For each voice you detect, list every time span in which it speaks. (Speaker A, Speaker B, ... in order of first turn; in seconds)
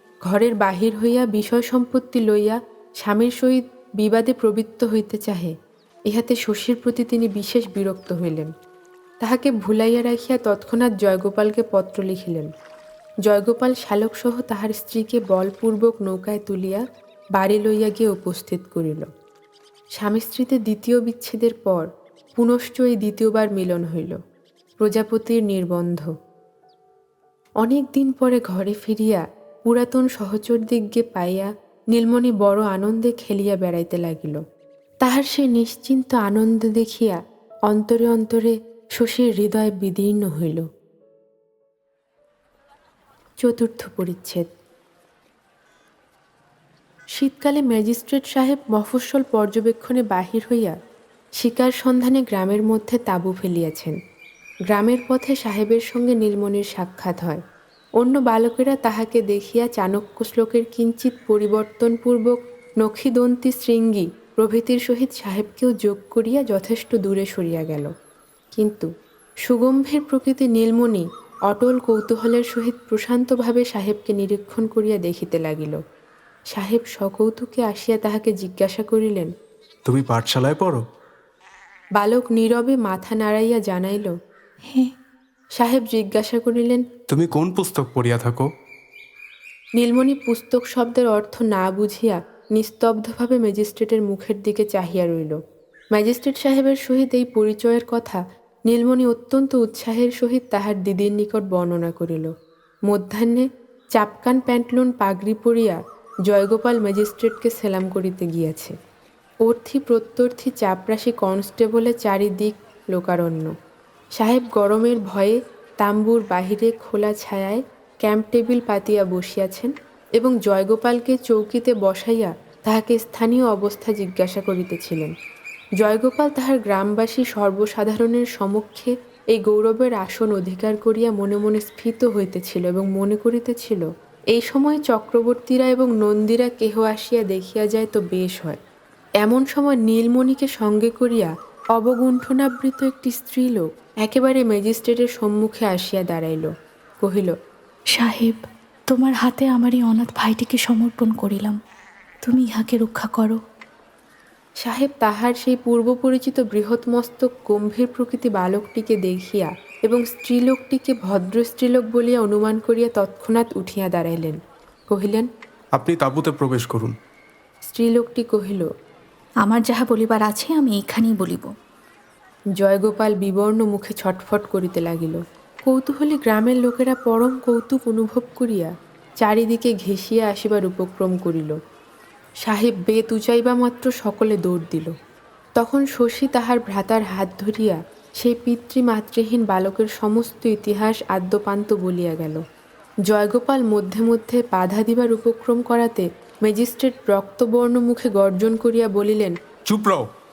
Speaker A: 0.3-5.5, 6.1-8.5, 9.2-12.5, 13.3-16.8, 17.4-19.1, 20.0-21.9, 22.4-24.2, 24.8-26.1, 27.6-34.4, 35.0-40.7, 43.4-44.5, 47.2-50.8, 51.4-54.0, 54.7-57.4, 58.0-67.9, 68.6-68.9, 69.5-75.8, 76.5-79.3, 82.0-84.1, 85.6-86.8, 89.8-95.4, 96.0-102.3, 102.9-108.7, 109.5-113.5, 114.2-125.1, 125.8-138.6, 139.2-146.5, 147.0-147.3, 154.6-164.4, 164.9-165.3, 167.7-168.7, 172.6-181.6, 182.4-184.9, 185.6-192.4, 193.1-199.3
Speaker B: 79.9-80.8, 87.1-88.5, 165.8-166.9, 199.7-200.0
Speaker C: 148.0-148.4, 148.9-151.6, 152.2-153.4, 169.4-171.5